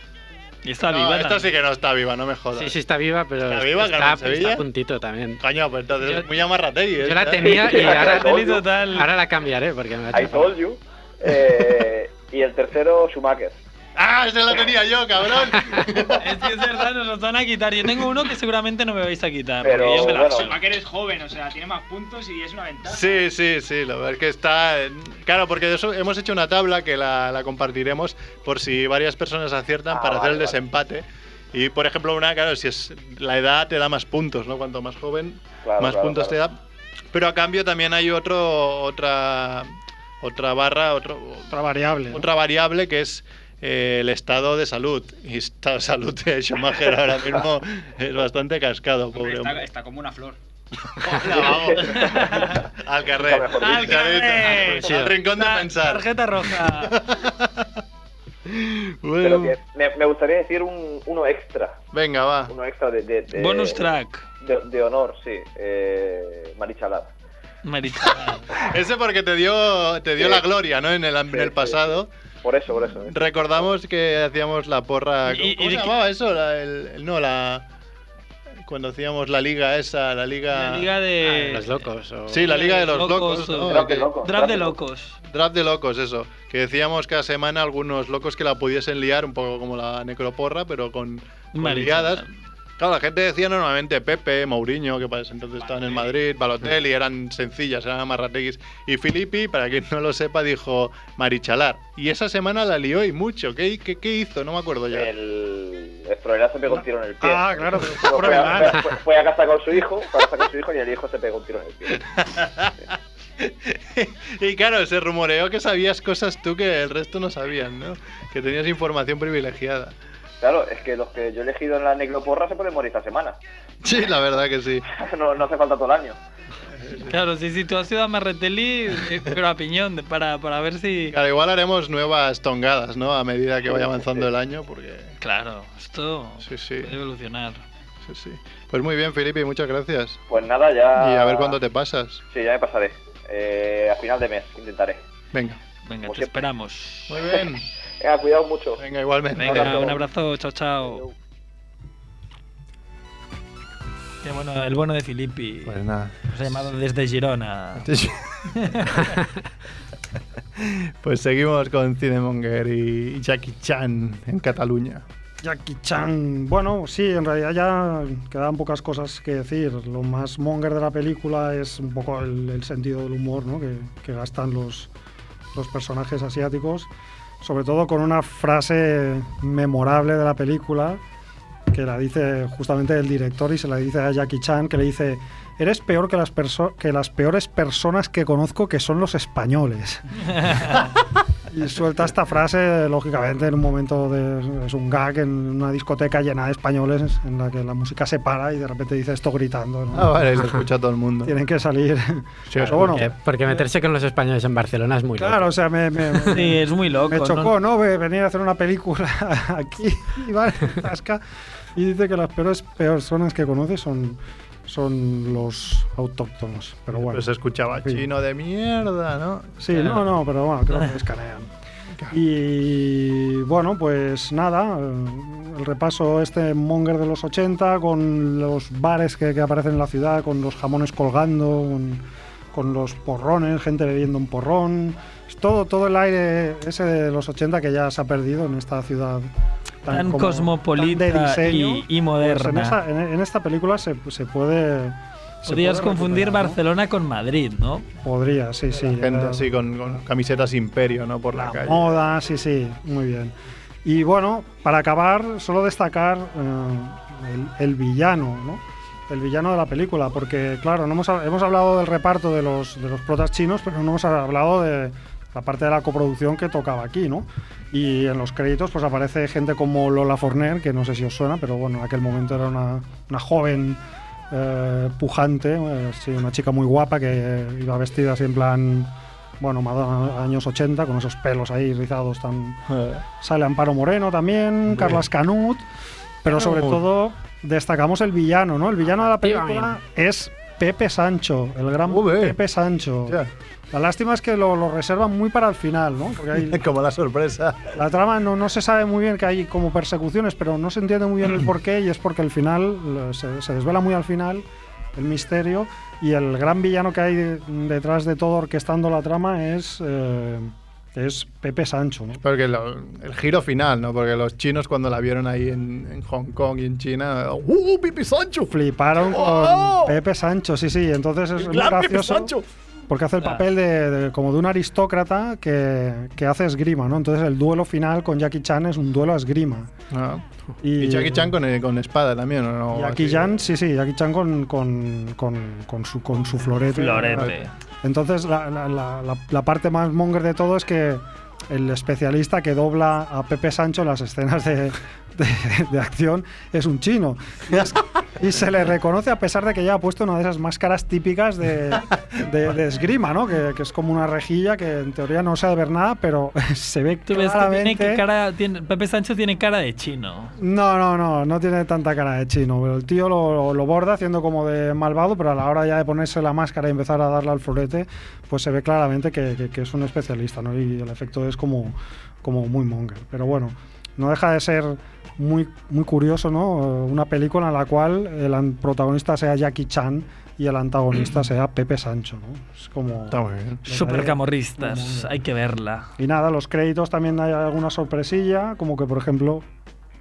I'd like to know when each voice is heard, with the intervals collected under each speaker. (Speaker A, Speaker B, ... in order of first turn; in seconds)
Speaker A: 0.7-1.5, 7.7-9.1, 16.2-20.5, 51.8-52.6, 53.6-57.0, 63.3-64.2, 67.7-68.4, 75.2-76.0, 80.5-85.2, 91.5-92.3, 127.1-131.2, 135.2-137.6, 145.9-147.2, 149.4-151.0, 154.2-155.8, 156.3-157.9, 158.6-159.2, 190.4-190.7, 206.3-207.5, 239.9-242.8, 245.5-247.9, 336.7-337.5, 357.1-360.3, 383.7-385.9
Speaker B: 0.9-2.8, 3.5-4.6, 5.4-8.0, 14.0-16.4, 22.9-36.5, 37.1-39.7, 40.2-41.5, 42.1-49.7, 51.0-56.0, 56.6-57.7, 58.5-59.6, 61.9-62.5, 68.0-72.1, 73.0-77.7, 78.7-80.9, 82.3-84.1, 85.3-92.2, 92.8-105.1, 107.8-108.8, 112.1-112.7, 113.4-119.9, 123.8-124.8, 126.8-127.1, 131.1-135.1, 136.4-136.9, 138.1-140.2, 141.0-142.2, 145.3-145.6, 147.1-147.6, 148.8-150.0, 155.7-156.2, 157.8-158.5, 160.6-165.0, 199.9-201.3, 202.5-203.0, 216.9-219.6, 248.8-251.9, 282.7-283.0, 284.7-285.0, 286.3-286.8, 291.9-292.4, 296.4-297.8, 312.2-320.0, 321.4-322.5, 329.9-330.2, 330.8-333.4, 383.1-383.6
Speaker C: 2.5-5.4, 6.0-6.3, 7.0-10.5, 54.6-55.1, 81.2-82.6, 202.6-205.5, 288.9-289.8
Speaker D: 7.4-8.7, 10.1-13.6, 19.6-20.6, 29.9-30.6, 35.6-36.4, 51.4-52.6, 53.2-54.2, 59.2-61.8, 62.5-63.9, 64.4-67.1, 70.2-70.5, 71.3-73.7, 83.6-84.8, 104.9-112.0, 120.4-123.4, 124.9-126.2, 133.6-134.3, 140.3-141.6, 142.3-145.0, 146.0-146.5, 148.0-148.8, 149.4-150.0
Speaker E: 19.8-23.3, 49.1-50.4, 95.6-96.2
Speaker F: 41.5-42.2, 107.2-108.9, 165.4-174.9, 175.6-176.9, 177.4-181.0, 181.7-190.2, 191.5-200.2, 201.2-203.1, 205.2-211.2, 211.8-217.3, 219.6-221.5, 222.1-232.0, 232.5-239.3, 239.8-246.6, 248.0-249.5, 251.3-253.3, 253.8-273.8, 274.3-282.6, 283.2-285.6, 286.2-293.2, 293.7-296.6, 297.8-304.4, 305.0-312.2, 318.5-322.3, 322.9-329.7, 330.6-331.3, 332.7-358.0, 360.4-385.1, 386.0-389.4